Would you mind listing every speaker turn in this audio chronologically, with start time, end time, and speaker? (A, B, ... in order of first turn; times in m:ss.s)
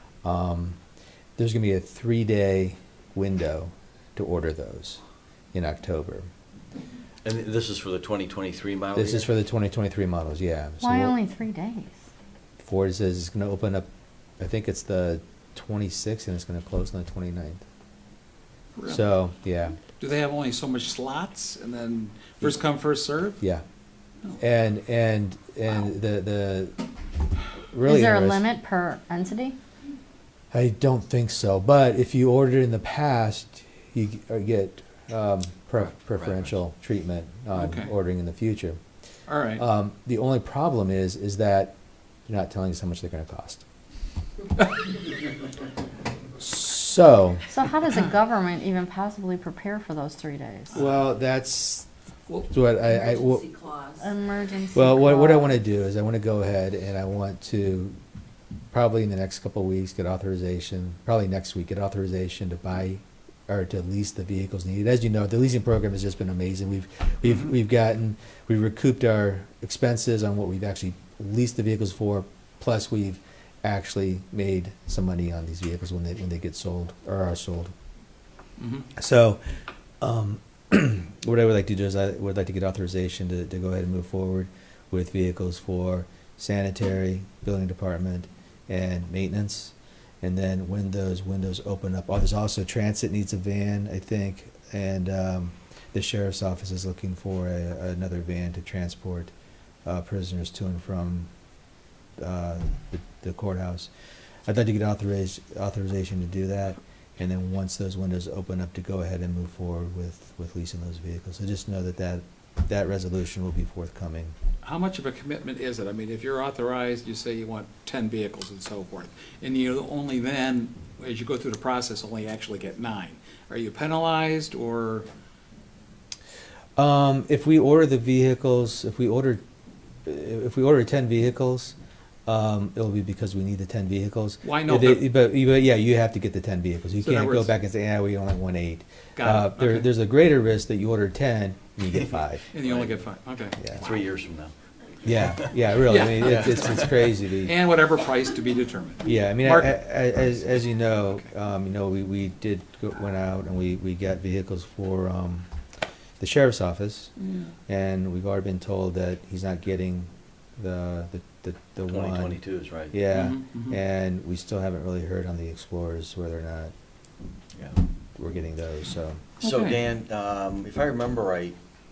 0:00.2-0:00.8 A
0:01.4-0:05.0 A
0:05.5-0:06.3 A
0:07.2-0:09.3 B
0:08.9-0:11.2 A
0:10.8-0:12.0 C
0:12.6-0:13.9 A
0:14.4-0:17.6 A
0:18.8-0:19.0 D
0:18.9-0:19.8 A
0:20.0-0:23.4 D
0:24.4-0:26.8 A
0:27.7-0:28.4 A
0:27.8-0:29.6 C
0:30.5-0:38.8 A
0:37.5-0:37.9 D
0:39.3-0:39.6 D
0:39.6-0:41.7 A
0:42.3-0:43.6 A
0:46.4-0:47.4 A
0:47.5-0:50.7 C
0:50.7-0:51.9 A
0:52.5-0:53.6 A
0:54.0-0:55.5 C
0:54.7-0:58.0 A
0:58.7-1:17.7 A
1:18.6-1:18.8 D
1:19.0-1:19.4 A
1:20.0-1:39.3 A
1:39.8-1:41.3 A
1:42.2-1:43.9 A
1:44.5-1:54.3 A
1:54.6-2:05.1 D
2:06.8-2:09.4 A
2:10.0-2:11.7 A
2:12.2-2:22.4 A
2:14.4-2:15.1 D
2:17.0-2:17.6 D
2:19.2-2:19.9 D
2:22.5-2:23.6 D
2:22.5-2:23.1 B
2:23.6-2:23.9 A
2:23.7-2:24.5 B
2:25.0-2:27.5 A
2:25.8-2:26.6 D
2:26.2-2:26.8 B
2:27.4-2:29.8 D
2:29.0-2:35.5 A
2:36.2-2:37.1 A
2:37.2-2:37.5 D
2:37.7-2:42.4 A
2:41.9-2:42.9 B
2:42.9-2:46.7 A
2:43.1-2:43.8 D
2:48.2-2:49.2 A
2:49.4-2:51.6 B
2:49.4-2:49.8 D